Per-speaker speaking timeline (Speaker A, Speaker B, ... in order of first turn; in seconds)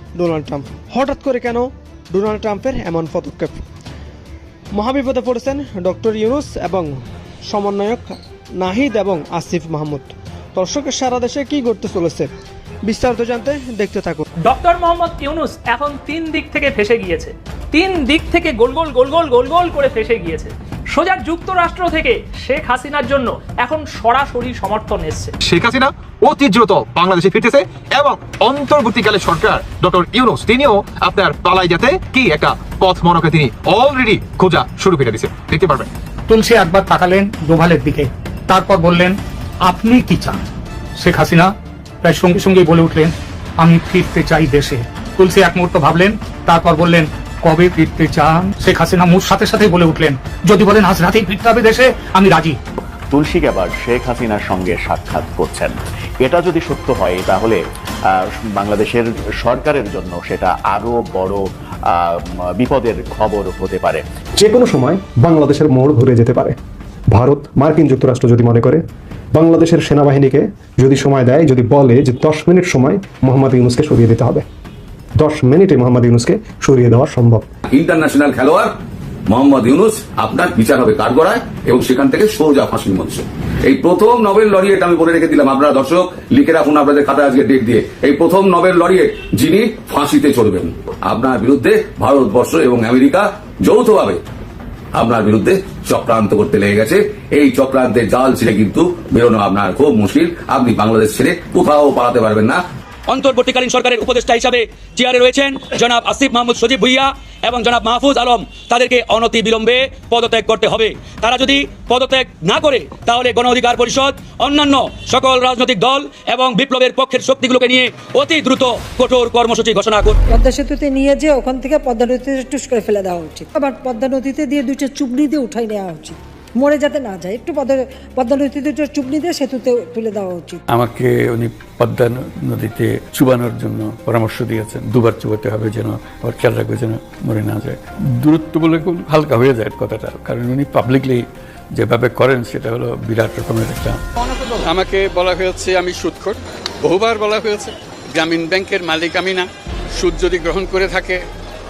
Speaker A: 0.2-3.6, 4.7-7.0, 7.5-12.3, 12.9-14.3
Speaker B: 14.4-25.3
Speaker C: 25.4-35.9
Speaker D: 36.3-40.4, 41.0-52.6
Speaker E: 53.1-64.0
Speaker F: 64.4-66.6, 67.1-74.5, 75.2-77.5
Speaker G: 77.7-78.7, 79.3-94.2, 95.0-102.6
Speaker H: 103.1-120.2
Speaker I: 120.3-130.6
Speaker J: 130.7-144.0
Speaker K: 144.6-151.2